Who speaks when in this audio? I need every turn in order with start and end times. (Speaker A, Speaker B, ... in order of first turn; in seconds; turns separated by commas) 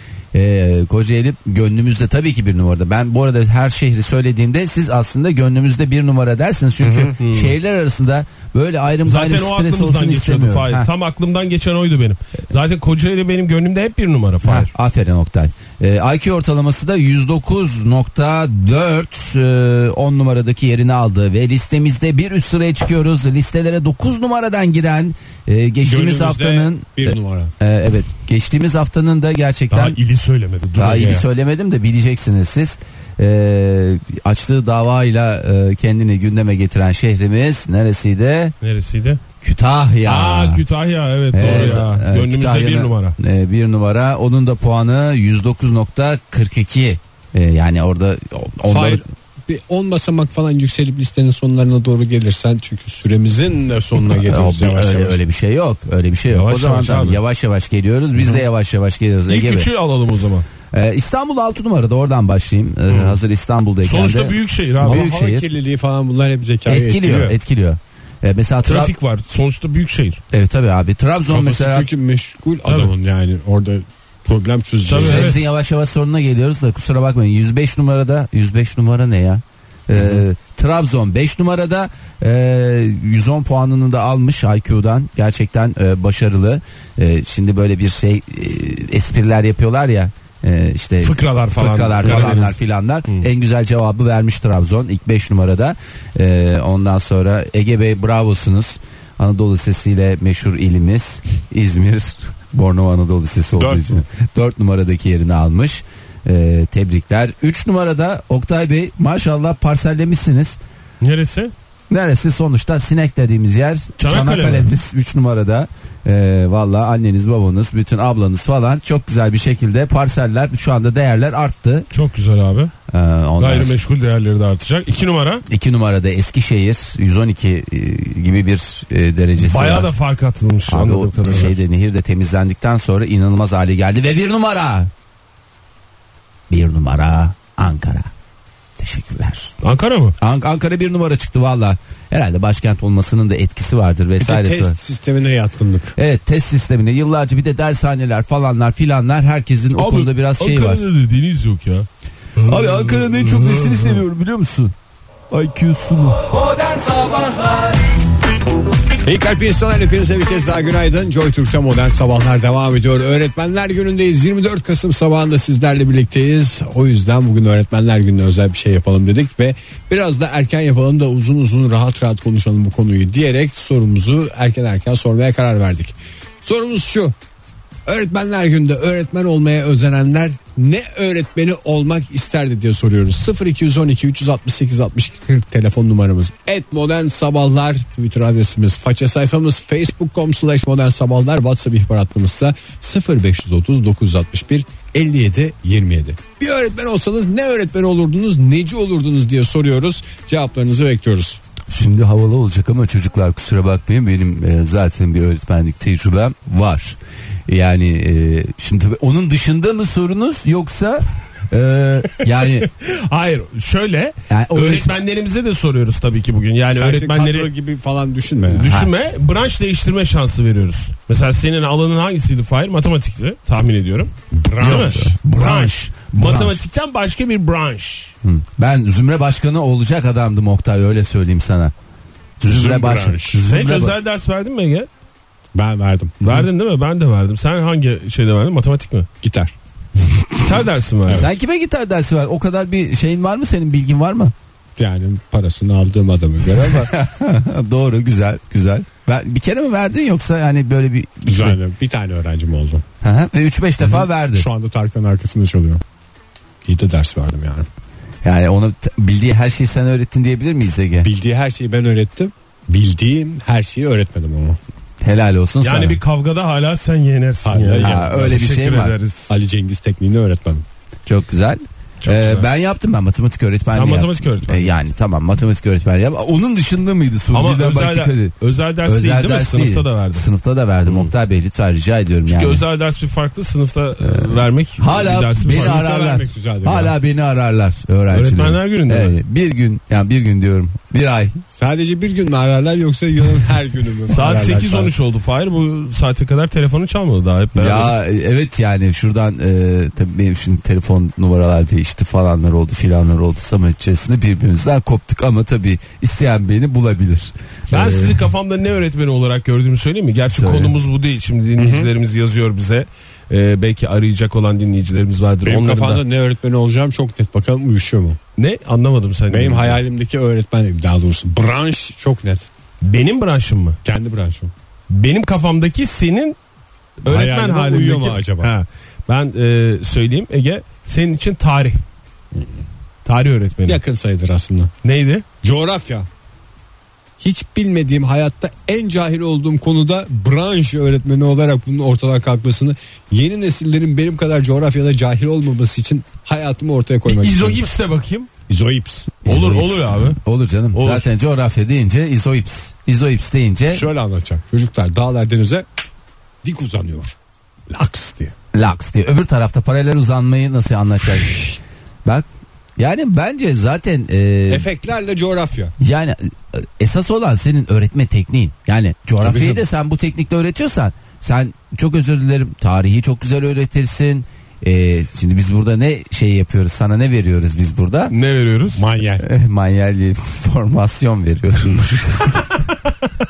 Speaker A: 0.3-10.9, Speaker B: 6.8-7.1, Speaker C: 7.2-7.5, Speaker C: 9.0-14.7, Speaker A: 14.4-30.0, Speaker B: 25.8-27.5, Speaker C: 29.7-31.2, Speaker A: 30.7-38.5, Speaker C: 38.6-39.2, Speaker A: 39.4-40.6, Speaker C: 40.0-43.1, Speaker A: 41.3-49.0, Speaker B: 41.4-41.8, Speaker B: 48.7-55.2, Speaker A: 54.2-59.7, Speaker C: 56.3-57.2, Speaker C: 59.3-60.5, Speaker A: 60.7-65.5, Speaker C: 62.9-63.1, Speaker C: 63.8-65.0, Speaker B: 64.8-67.3, Speaker A: 66.7-68.9, Speaker C: 68.6-70.2, Speaker A: 70.3-71.9, Speaker B: 71.3-75.3, Speaker C: 72.7-72.9, Speaker C: 74.8-75.4, Speaker A: 75.0-110.6, Speaker C: 91.0-93.3, Speaker B: 92.0-92.4, Speaker B: 103.6-104.0, Speaker C: 111.0-111.5, Speaker A: 111.9-121.9, Speaker C: 114.0-114.7, Speaker C: 121.9-122.7, Speaker A: 122.9-123.8, Speaker C: 123.4-125.4, Speaker A: 125.5-129.9, Speaker C: 129.4-131.5, Speaker A: 130.7-134.9, Speaker A: 136.5-138.1, Speaker A: 138.8-139.5, Speaker C: 139.6-140.2, Speaker A: 140.2-144.8, Speaker B: 144.2-145.9, Speaker A: 145.9-150.8, Speaker C: 149.8-154.0, Speaker A: 152.4-154.7, Speaker A: 155.3-156.4, Speaker B: 159.0-177.1, Speaker B: 177.8-201.4, Speaker A: 201.7-212.7, Speaker C: 212.6-217.5, Speaker A: 214.3-215.0, Speaker B: 216.7-218.8, Speaker C: 218.5-228.1, Speaker B: 224.3-225.2, Speaker A: 224.6-226.6, Speaker A: 228.2-231.7, Speaker A: 232.4-233.9, Speaker B: 232.5-233.4, Speaker C: 233.4-234.9, Speaker B: 235.5-236.5, Speaker C: 236.2-239.1, Speaker B: 239.2-239.5, Speaker C: 240.4-241.3, Speaker A: 241.1-244.3, Speaker B: 244.8-246.9, Speaker A: 246.6-251.6, Speaker B: 251.2-252.8, Speaker A: 253.0-254.5, Speaker B: 253.8-255.8, Speaker B: 256.6-257.7, Speaker A: 258.2-261.1, Speaker B: 261.0-264.6, Speaker A: 265.0-266.0, Speaker C: 265.6-269.3, Speaker B: 267.4-268.4, Speaker A: 267.8-268.9, Speaker B: 269.3-270.6, Speaker A: 271.1-282.6, Speaker C: 272.0-272.5, Speaker C: 273.7-274.7, Speaker C: 277.3-280.3, Speaker C: 282.2-285.8, Speaker A: 284.0-291.4, Speaker B: 285.5-286.9, Speaker C: 288.1-289.2, Speaker B: 291.6-294.9, Speaker C: 294.1-297.9, Speaker A: 297.5-308.2, Speaker C: 307.7-316.0, Speaker A: 310.3-310.7, Speaker B: 311.6-311.9, Speaker B: 315.4-318.2, Speaker C: 318.4-319.8, Speaker B: 319.3-322.5, Speaker C: 322.8-323.8, Speaker B: 323.8-324.5, Speaker C: 324.9-326.4, Speaker C: 327.0-331.8, Speaker B: 327.1-328.5, Speaker C: 333.0-333.8, Speaker B: 333.6-334.7, Speaker C: 334.8-335.2, Speaker B: 335.4-336.1, Speaker B: 337.2-347.6, Speaker C: 347.1-348.3, Speaker B: 348.5-349.2, Speaker C: 349.2-350.2, Speaker A: 349.2-353.9, Speaker C: 350.7-351.1, Speaker B: 353.7-355.6, Speaker B: 356.4-357.2, Speaker B: 357.7-358.3, Speaker A: 358.5-361.5, Speaker A: 362.8-364.7, Speaker B: 364.5-365.7, Speaker A: 365.8-378.1, Speaker B: 369.2-369.6, Speaker C: 378.1-378.8, Speaker B: 378.7-379.2, Speaker A: 379.2-382.6